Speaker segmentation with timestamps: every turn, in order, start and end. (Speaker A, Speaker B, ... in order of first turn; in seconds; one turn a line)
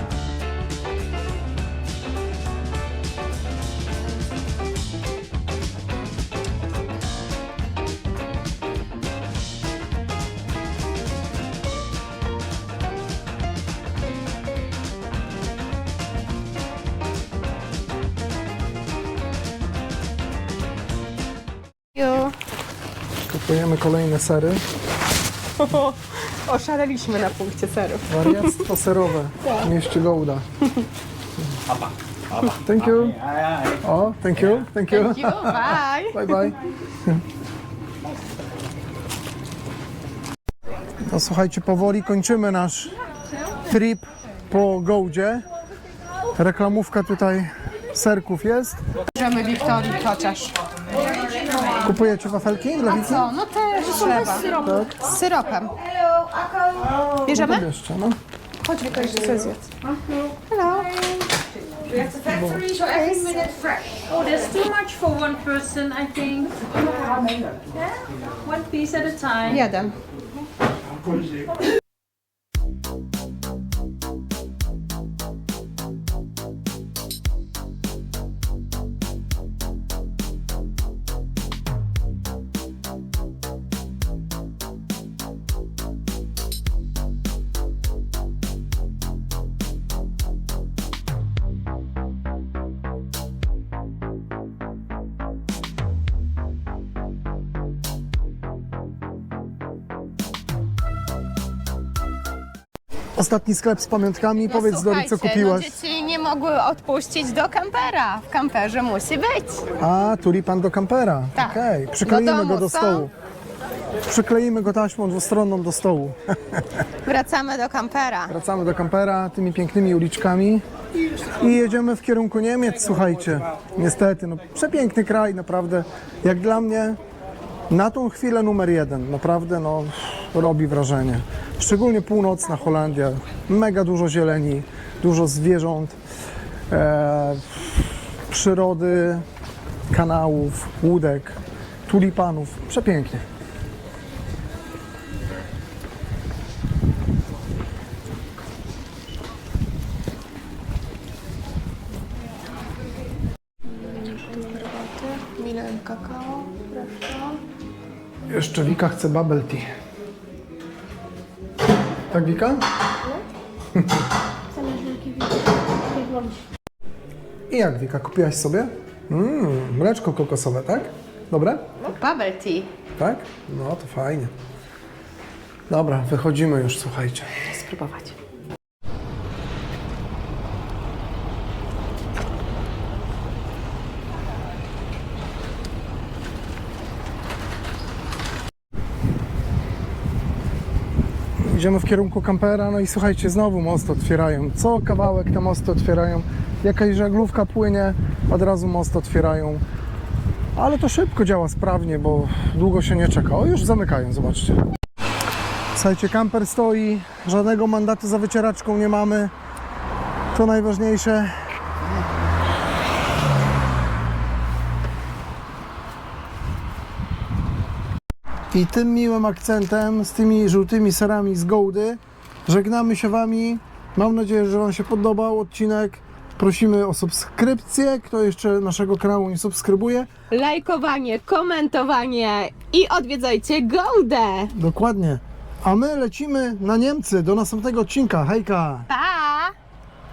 Speaker A: 21.9-22.4
Speaker B: 23.3-24.6
Speaker A: 25.6-28.7
Speaker B: 28.1-30.4
Speaker B: 32.4-37.2
Speaker A: 34.9-36.4
Speaker B: 41.0-42.9
Speaker B: 43.7-45.4
Speaker B: 46.3-48.8
Speaker A: 49.1-50.6
Speaker B: 51.8-53.3
Speaker A: 52.9-55.9
Speaker B: 54.4-55.1
Speaker A: 56.7-57.6
Speaker B: 57.3-58.2
Speaker A: 58.6-59.7
Speaker A: 60.5-61.4
Speaker A: 61.9-63.6
Speaker B: 62.2-62.6
Speaker C: 64.2-66.5
Speaker C: 68.5-69.4
Speaker A: 69.4-70.0
Speaker B: 103.2-105.8
Speaker A: 104.4-109.7
Speaker B: 109.8-113.1
Speaker A: 111.3-113.1
Speaker B: 114.1-116.8
Speaker A: 117.0-118.3
Speaker B: 118.3-120.6
Speaker B: 121.3-127.0
Speaker B: 127.7-136.0
Speaker B: 136.7-139.2
Speaker B: 139.9-143.2
Speaker A: 153.7-157.4
Speaker B: 158.3-159.7
Speaker B: 162.1-162.6
Speaker B: 163.8-164.0
Speaker A: 164.6-165.0
Speaker B: 167.5-171.7
Speaker A: 171.8-172.7
Speaker B: 173.0-174.3
Speaker B: 175.7-177.4
Speaker A: 177.4-178.1
Speaker B: 191.4-199.6
Speaker B: 200.5-204.6
Speaker B: 205.7-209.3
Speaker B: 210.3-211.3
Speaker B: 218.5-230.1
Speaker A: 230.3-234.5
Speaker B: 234.5-238.9
Speaker A: 238.9-239.5